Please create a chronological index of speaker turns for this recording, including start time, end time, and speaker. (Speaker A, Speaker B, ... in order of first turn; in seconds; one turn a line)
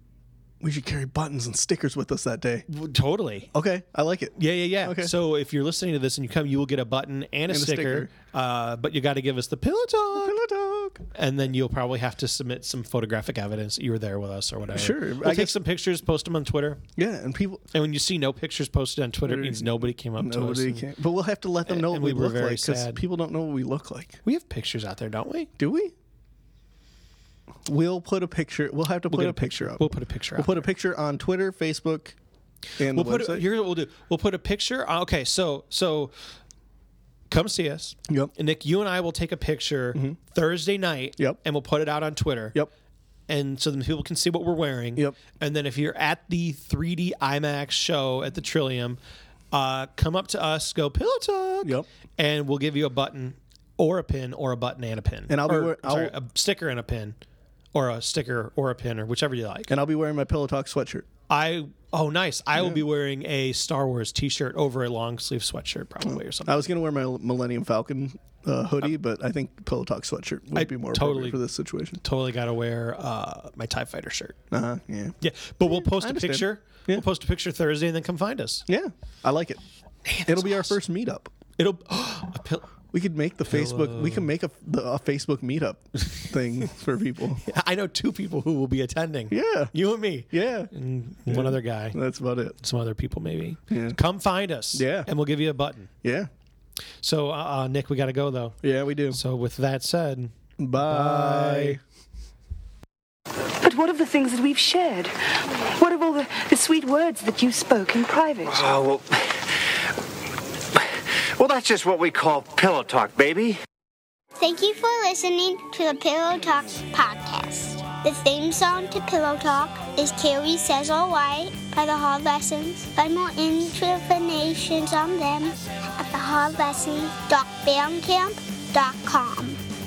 Speaker A: 0.6-2.6
Speaker B: 2.7-3.5
Speaker A: 3.5-5.1
Speaker B: 4.4-10.3
Speaker A: 7.5-8.1
Speaker A: 10.1-11.1
Speaker B: 11.1-16.8
Speaker A: 14.7-15.6
Speaker A: 16.9-17.6
Speaker B: 17.7-20.9
Speaker A: 19.2-24.2
Speaker B: 21.6-23.0
Speaker B: 24.2-25.5
Speaker A: 25.6-25.9
Speaker A: 27.6-32.2
Speaker B: 29.1-30.6
Speaker A: 32.8-33.5
Speaker B: 32.9-36.1
Speaker B: 37.3-42.5
Speaker B: 43.3-49.0
Speaker B: 49.5-57.1
Speaker A: 55.3-56.1
Speaker B: 57.7-59.8
Speaker A: 59.7-61.1
Speaker B: 61.3-66.7
Speaker A: 62.5-62.8
Speaker A: 66.0-72.0
Speaker B: 70.5-71.4
Speaker B: 72.0-74.3
Speaker A: 74.5-75.2
Speaker B: 75.2-78.7
Speaker A: 75.8-77.0
Speaker A: 78.7-79.6
Speaker B: 80.0-80.8
Speaker A: 80.2-81.3
Speaker B: 81.6-82.7
Speaker A: 82.9-87.4
Speaker B: 83.5-84.3
Speaker B: 87.4-92.0
Speaker A: 89.3-89.7
Speaker A: 90.3-90.7
Speaker A: 91.3-92.6
Speaker B: 92.6-95.9
Speaker A: 93.7-94.0
Speaker A: 94.7-95.1
Speaker A: 96.0-96.3
Speaker B: 97.0-98.6
Speaker A: 98.6-99.2
Speaker B: 99.1-101.8
Speaker A: 100.6-101.8
Speaker C: 103.6-108.8
Speaker D: 108.5-109.9
Speaker D: 110.7-113.6
Speaker E: 114.4-129.6